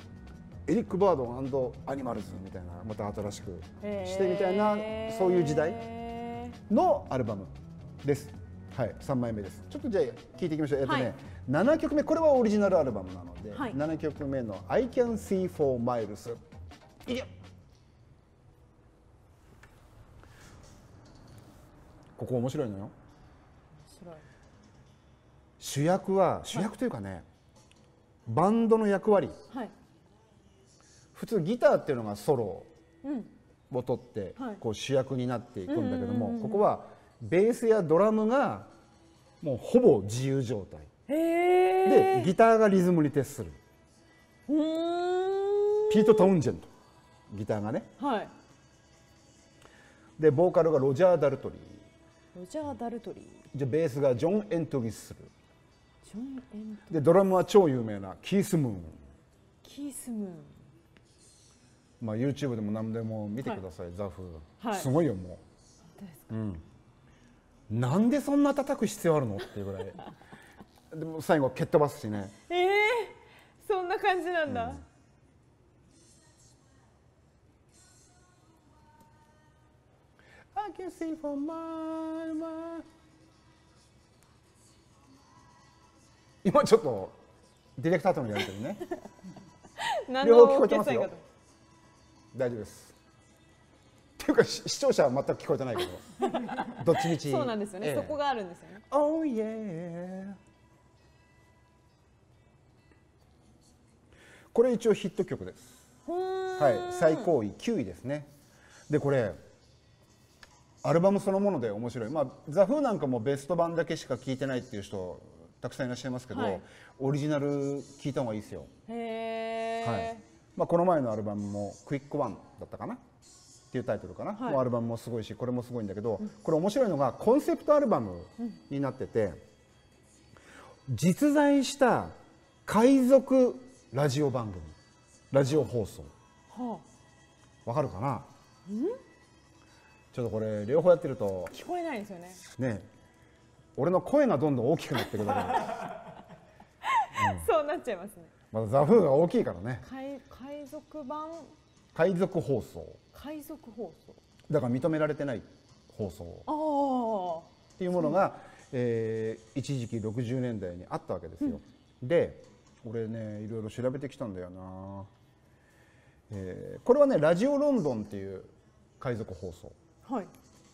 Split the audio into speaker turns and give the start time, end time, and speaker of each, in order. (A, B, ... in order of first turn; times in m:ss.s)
0:00.7-0:05.8 A
0:03.8-0:06.6 B
0:06.7-0:16.4 A
0:10.8-0:11.1 B
0:17.1-0:17.3 A
0:22.2-0:22.9 A
0:23.9-0:24.2 B
0:25.6-0:27.2 A
0:28.3-0:29.4 A
0:31.2-0:32.7 A
0:33.0-0:33.3 B
0:33.7-0:38.7 A
0:35.7-0:36.7 B
0:39.4-0:40.9 A
0:41.1-0:42.3 B
0:41.8-0:43.6 A
0:44.5-0:46.3 B
0:45.9-0:46.7 A
0:47.3-0:47.9 A
0:48.0-0:48.3 B
0:50.2-0:51.9 A
0:52.3-0:53.4 B
0:53.5-0:55.3 A
0:56.0-0:57.0 B
0:56.9-0:59.0 A
0:59.6-1:00.6 B
1:02.0-1:05.4 A
1:04.6-1:04.9 B
1:06.0-1:06.3 B
1:06.3-1:06.6 A
1:07.7-1:10.1 A
1:10.9-1:12.4 A
1:12.5-1:14.8 B
1:14.5-1:14.8 A
1:20.5-1:22.9 A
1:26.4-1:27.2 A
1:27.8-1:28.8 A
1:29.8-1:31.2 B
1:30.2-1:31.1 A
1:32.3-1:33.0 A
1:34.2-1:38.2 A
1:36.2-1:38.8 B
1:38.9-1:40.4 A
1:44.5-1:45.8 A
1:46.1-1:47.3 B
1:46.6-1:48.3 A
1:48.9-1:49.4 A
1:50.8-1:58.7 A
1:56.3-1:56.6 B
1:58.9-2:00.2 B
1:59.8-2:03.0 A
2:03.7-2:09.4 A
2:04.4-2:04.6 B
2:10.9-2:14.8 A
2:15.3-2:16.1 A
2:16.5-2:16.8 B
2:17.6-2:18.3 A
2:18.7-2:19.0 B
2:20.1-2:21.5 A
2:21.5-2:22.4 B
2:22.5-2:22.9 A
2:23.8-2:25.9 A
2:26.8-2:28.3 B
2:27.1-2:27.5 A
2:28.5-2:29.8 A
2:29.8-2:31.5 B
2:31.9-2:33.0 A
2:33.1-2:34.2 B
2:34.5-2:36.5 A
2:36.5-2:37.5 B
2:37.8-2:45.1 A
2:46.3-2:49.8 A
2:50.0-2:50.3 B